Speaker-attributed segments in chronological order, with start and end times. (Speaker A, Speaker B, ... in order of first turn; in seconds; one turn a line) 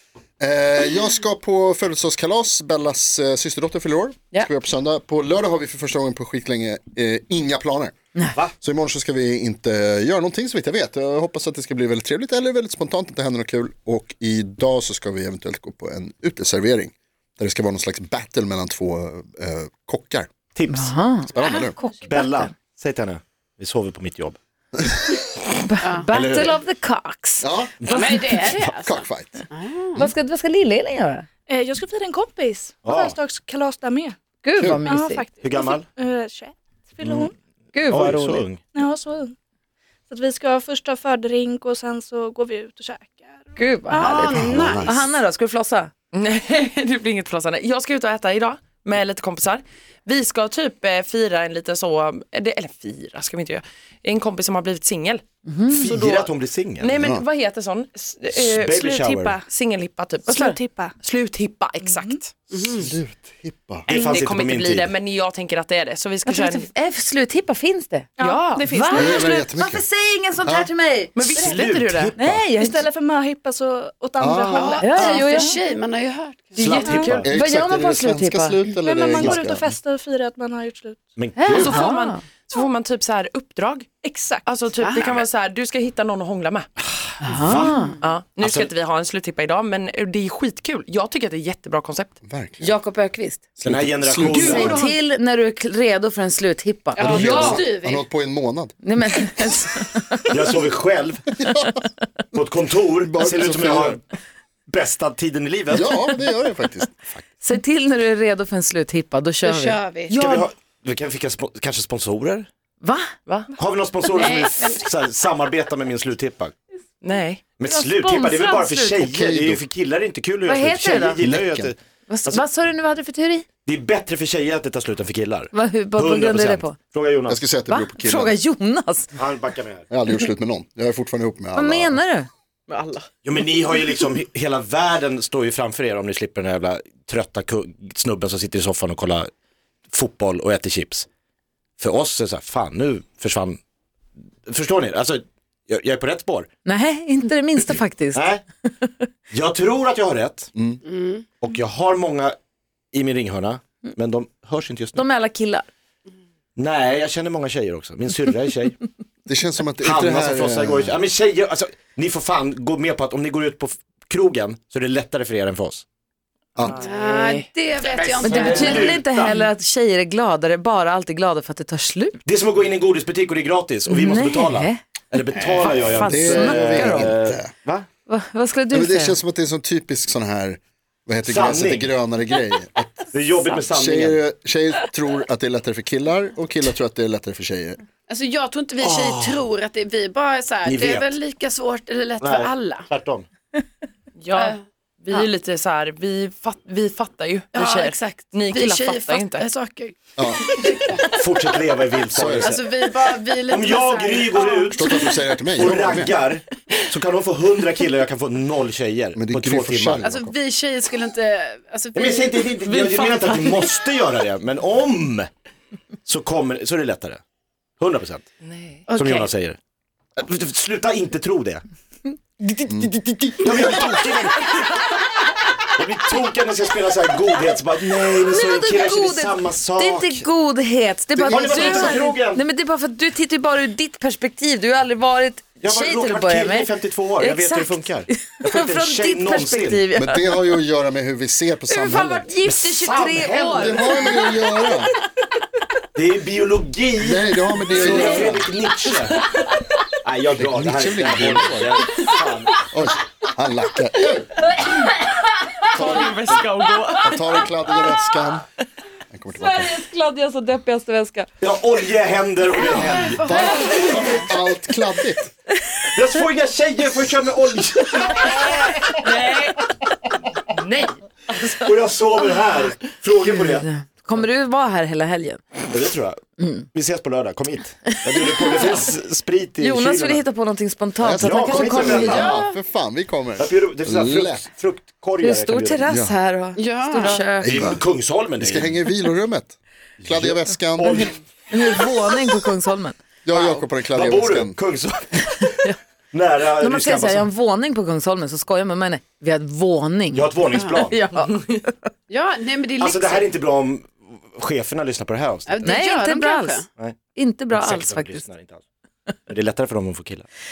Speaker A: 0.4-7.9
Speaker A: 8.6-20.3
Speaker B: 20.5-20.9
Speaker C: 20.7-22.5
Speaker A: 21.3-21.8
Speaker D: 21.4-21.7
Speaker B: 22.0-24.4
Speaker A: 24.8-25.2
Speaker C: 25.6-27.5
Speaker D: 25.8-26.1
Speaker A: 26.1-26.6
Speaker A: 27.4-27.7
Speaker B: 27.8-28.4
Speaker D: 27.9-30.0
Speaker A: 28.3-29.4
Speaker C: 30.0-31.2
Speaker E: 31.5-34.1
Speaker B: 32.8-33.2
Speaker C: 34.4-35.2
Speaker E: 34.7-37.3
Speaker B: 35.4-35.9
Speaker B: 37.0-37.3
Speaker C: 37.7-38.5
Speaker B: 37.9-38.6
Speaker E: 38.7-39.3
Speaker E: 40.1-43.6
Speaker C: 43.5-45.9
Speaker D: 43.9-45.0
Speaker A: 44.4-45.0
Speaker F: 46.1-55.2
Speaker C: 55.5-55.9
Speaker B: 55.7-57.0
Speaker F: 55.8-62.3
Speaker A: 57.0-57.2
Speaker B: 58.3-59.4
Speaker E: 58.9-59.4
Speaker E: 60.3-60.9
Speaker C: 60.3-60.6
Speaker E: 61.8-62.2
Speaker D: 62.5-62.9
Speaker A: 62.7-63.9
Speaker B: 63.9-64.9
Speaker E: 63.9-64.2
Speaker F: 63.9-66.7
Speaker C: 66.2-68.1
Speaker E: 68.2-69.3
Speaker F: 68.2-68.7
Speaker C: 68.7-71.5
Speaker A: 68.9-69.8
Speaker A: 70.4-70.7
Speaker F: 71.1-72.1
Speaker B: 71.3-72.5
Speaker C: 72.2-72.8
Speaker E: 72.5-75.6
Speaker A: 74.2-74.8
Speaker D: 74.5-77.1
Speaker C: 74.8-75.6
Speaker B: 76.5-77.3
Speaker C: 76.6-78.6
Speaker E: 76.8-77.2
Speaker A: 77.2-79.8
Speaker E: 78.8-81.1
Speaker B: 81.2-81.8
Speaker C: 81.4-82.2
Speaker F: 81.5-83.9
Speaker E: 84.0-84.5
Speaker F: 84.4-86.7
Speaker D: 84.8-85.2
Speaker C: 87.2-88.0
Speaker B: 87.3-87.8
Speaker F: 88.0-92.1
Speaker B: 88.4-88.7
Speaker A: 92.2-92.7
Speaker C: 92.6-93.4
Speaker A: 93.6-94.8
Speaker B: 93.6-94.8
Speaker F: 94.3-94.9
Speaker C: 94.3-97.5
Speaker D: 97.0-98.0
Speaker F: 97.0-97.6
Speaker A: 97.0-99.3
Speaker C: 98.8-100.6
Speaker B: 100.3-101.2
Speaker A: 101.4-101.8
Speaker B: 102.3-104.0
Speaker A: 103.0-104.0
Speaker B: 104.7-106.0
Speaker A: 105.7-106.9
Speaker C: 107.4-109.8
Speaker D: 109.4-110.3
Speaker B: 110.1-112.5
Speaker C: 112.8-113.1
Speaker B: 113.5-116.5
Speaker D: 114.1-114.8
Speaker F: 117.0-117.5
Speaker B: 117.6-122.4
Speaker C: 117.7-119.1
Speaker A: 119.0-119.6
Speaker C: 120.5-121.2
Speaker A: 120.9-121.7
Speaker C: 122.1-123.5
Speaker B: 123.7-127.4
Speaker C: 125.5-126.8
Speaker A: 127.3-128.4
Speaker C: 127.7-129.1
Speaker B: 129.2-129.9
Speaker A: 129.9-132.0
Speaker C: 131.5-132.3
Speaker F: 132.7-133.1
Speaker B: 133.2-139.3
Speaker B: 139.9-141.1
Speaker B: 141.8-143.6
Speaker B: 144.4-146.5
Speaker C: 146.6-148.2
Speaker B: 148.1-148.4
Speaker C: 148.8-149.1
Speaker B: 149.3-150.5
Speaker D: 150.8-151.3
Speaker B: 151.4-152.3
Speaker B: 152.9-155.1
Speaker C: 154.9-155.7
Speaker B: 156.6-158.7
Speaker A: 159.2-161.0
Speaker B: 159.8-165.8
Speaker F: 166.6-169.4
Speaker D: 166.8-169.0
Speaker B: 168.0-169.0
Speaker C: 168.2-172.2
Speaker B: 172.2-177.9
Speaker C: 173.8-174.8
Speaker C: 175.5-177.1
Speaker A: 176.0-177.5
Speaker C: 178.1-179.2
Speaker A: 178.7-182.9
Speaker B: 181.2-181.9
Speaker B: 183.1-184.2
Speaker A: 183.7-187.8
Speaker D: 188.1-192.9
Speaker B: 188.8-189.4
Speaker B: 190.6-191.1
Speaker B: 192.2-193.2
Speaker F: 194.2-199.4
Speaker D: 194.3-194.6
Speaker D: 197.5-201.7
Speaker A: 200.2-200.4
Speaker B: 201.1-204.9
Speaker A: 202.1-202.5
Speaker D: 202.3-205.2
Speaker A: 204.8-206.1
Speaker B: 205.5-210.1
Speaker A: 209.1-210.3
Speaker D: 210.0-212.5
Speaker B: 211.9-215.3
Speaker F: 212.6-213.8
Speaker B: 216.1-217.2
Speaker B: 217.8-218.2
Speaker F: 218.4-218.9
Speaker D: 218.9-219.3
Speaker B: 218.9-219.6
Speaker B: 220.2-221.6
Speaker A: 222.7-223.1
Speaker B: 223.4-224.8
Speaker B: 225.8-230.2
Speaker C: 228.2-240.3
Speaker B: 231.2-232.4
Speaker A: 231.2-232.0
Speaker B: 235.6-239.8
Speaker A: 239.9-242.3
Speaker C: 241.7-244.7
Speaker B: 242.4-243.9
Speaker A: 243.6-244.9
Speaker B: 245.9-249.2
Speaker A: 247.0-248.5
Speaker F: 248.8-249.7
Speaker B: 250.0-252.7
Speaker A: 250.3-251.8
Speaker A: 252.7-254.4
Speaker F: 255.7-257.8
Speaker A: 255.8-256.1
Speaker A: 257.0-258.4
Speaker A: 259.1-259.8
Speaker C: 259.3-261.3
Speaker B: 261.4-264.0
Speaker D: 262.6-264.3
Speaker A: 263.2-265.3
Speaker B: 265.9-268.8
Speaker F: 268.4-269.7
Speaker F: 270.5-271.8
Speaker B: 271.6-273.6
Speaker C: 273.2-275.4
Speaker B: 275.7-276.2
Speaker C: 276.4-276.6
Speaker B: 276.7-280.2
Speaker C: 278.0-278.8
Speaker C: 279.6-282.3
Speaker A: 281.0-284.4
Speaker B: 281.2-282.5
Speaker D: 282.0-282.5
Speaker B: 283.4-285.9
Speaker C: 285.2-287.7
Speaker A: 285.9-286.1
Speaker D: 286.6-287.2
Speaker A: 287.4-287.8
Speaker B: 287.4-288.8
Speaker A: 288.4-291.1
Speaker B: 290.0-291.1
Speaker C: 291.5-293.0
Speaker A: 293.2-294.6
Speaker B: 293.4-297.3
Speaker C: 296.6-301.8
Speaker B: 300.1-301.0
Speaker D: 300.5-300.9
Speaker D: 302.1-303.3
Speaker B: 302.8-305.7
Speaker D: 305.4-306.7
Speaker C: 305.6-306.6
Speaker C: 307.1-308.2
Speaker B: 307.5-308.6
Speaker B: 309.3-310.3